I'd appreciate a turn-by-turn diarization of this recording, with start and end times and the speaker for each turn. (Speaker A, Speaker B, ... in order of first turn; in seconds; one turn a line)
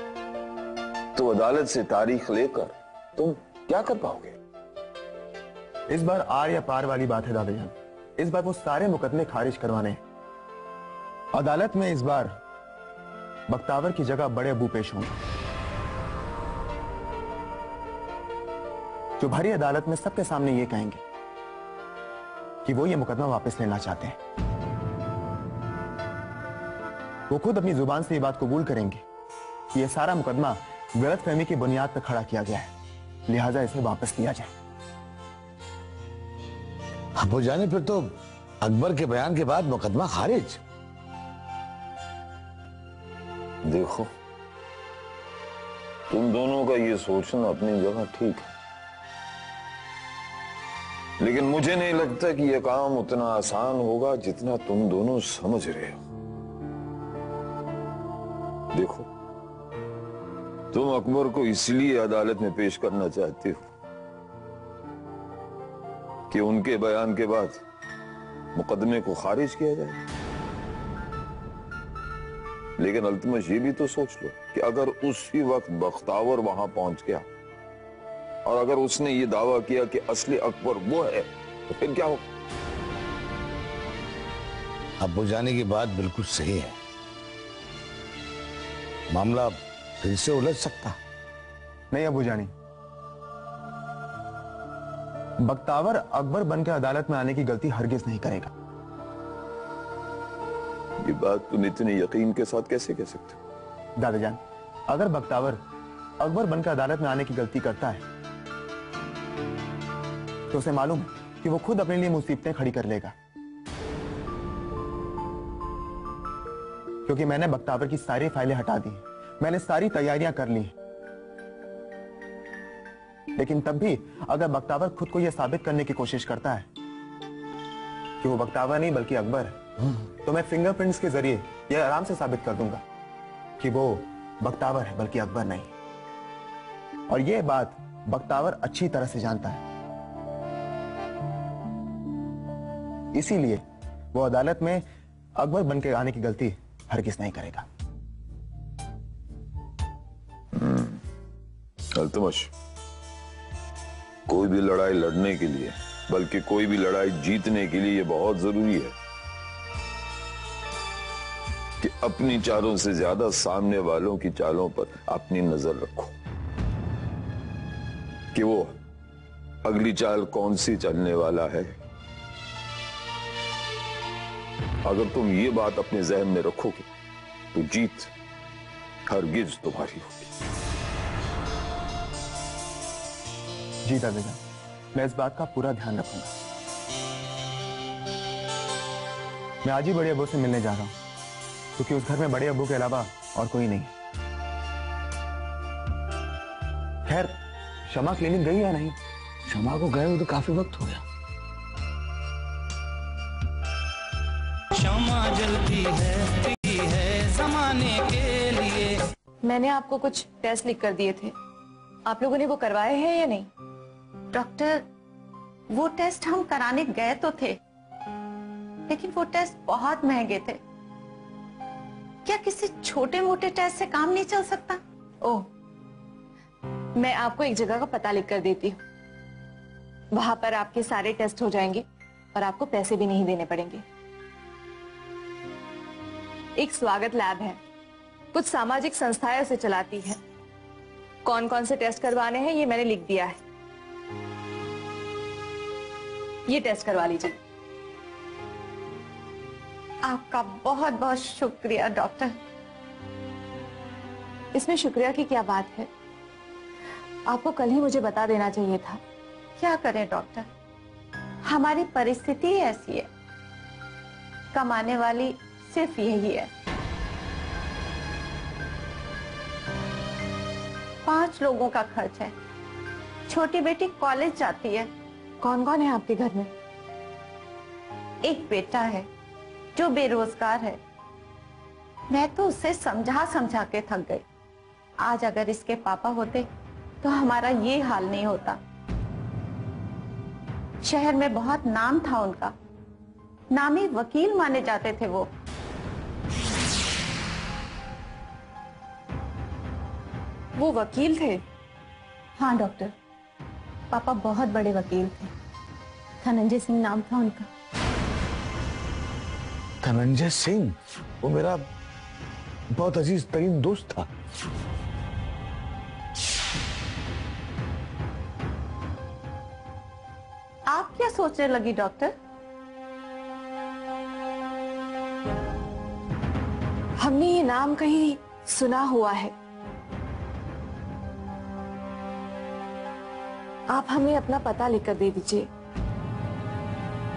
Speaker A: 1.2-4.4
Speaker B: 5.9-10.0
Speaker B: 11.3-12.3
Speaker B: 13.5-15.1
Speaker B: 19.2-21.0
Speaker B: 22.6-24.1
Speaker B: 27.3-29.0
Speaker B: 29.7-32.7
Speaker B: 33.3-34.5
Speaker C: 37.2-38.1
Speaker C: 38.7-40.6
Speaker A: 43.7-44.1
Speaker A: 46.1-48.5
Speaker A: 51.2-56.0
Speaker A: 58.7-59.1
Speaker A: 60.7-63.7
Speaker A: 66.3-67.6
Speaker A: 68.6-70.0
Speaker A: 72.8-77.2
Speaker A: 78.5-82.2
Speaker C: 85.0-86.8
Speaker C: 89.1-90.9
Speaker B: 91.9-92.5
Speaker B: 95.4-98.5
Speaker A: 101.0-103.4
Speaker B: 104.0-105.6
Speaker B: 106.2-108.0
Speaker B: 110.5-113.1
Speaker B: 117.1-120.7
Speaker B: 123.4-126.7
Speaker B: 128.2-129.6
Speaker B: 130.2-132.8
Speaker B: 133.6-135.7
Speaker B: 137.1-139.6
Speaker B: 143.1-143.6
Speaker B: 144.1-144.8
Speaker B: 145.4-147.7
Speaker A: 150.6-151.0
Speaker A: 152.0-152.5
Speaker A: 154.3-158.9
Speaker A: 161.8-166.1
Speaker A: 168.3-168.8
Speaker A: 169.6-171.8
Speaker A: 174.8-176.9
Speaker A: 177.5-178.1
Speaker A: 179.1-180.3
Speaker B: 183.9-184.4
Speaker B: 184.9-186.3
Speaker B: 189.6-190.9
Speaker B: 191.8-193.9
Speaker B: 197.1-197.3
Speaker B: 197.9-198.9
Speaker C: 199.5-201.0
Speaker D: 204.8-209.0
Speaker E: 209.4-211.3
Speaker E: 212.1-213.5
Speaker F: 214.3-214.8
Speaker F: 215.7-217.6
Speaker F: 218.9-220.6
Speaker F: 222.2-224.8
Speaker E: 227.0-228.8
Speaker E: 230.1-233.8
Speaker E: 236.6-237.6
Speaker E: 238.3-240.2
Speaker E: 241.2-243.4
Speaker E: 246.5-247.3
Speaker F: 250.1-252.3
Speaker E: 254.6-255.9
Speaker E: 257.3-259.0
Speaker F: 259.6-260.5
Speaker F: 261.5-263.1
Speaker F: 264.5-266.5
Speaker F: 271.1-272.3
Speaker F: 273.3-274.9
Speaker E: 275.4-276.5
Speaker F: 278.2-279.1
Speaker F: 279.8-280.8
Speaker F: 282.1-284.2
Speaker F: 285.0-286.5
Speaker F: 287.0-288.6
Speaker F: 290.8-292.5
Speaker F: 293.5-295.3
Speaker E: 300.6-301.4
Speaker F: 302.4-302.9
Speaker F: 303.9-305.3
Speaker F: 306.2-307.4
Speaker C: 309.8-311.6
Speaker C: 312.8-314.0
Speaker F: 320.7-322.1
Speaker E: 327.0-329.3
Speaker E: 333.7-335.5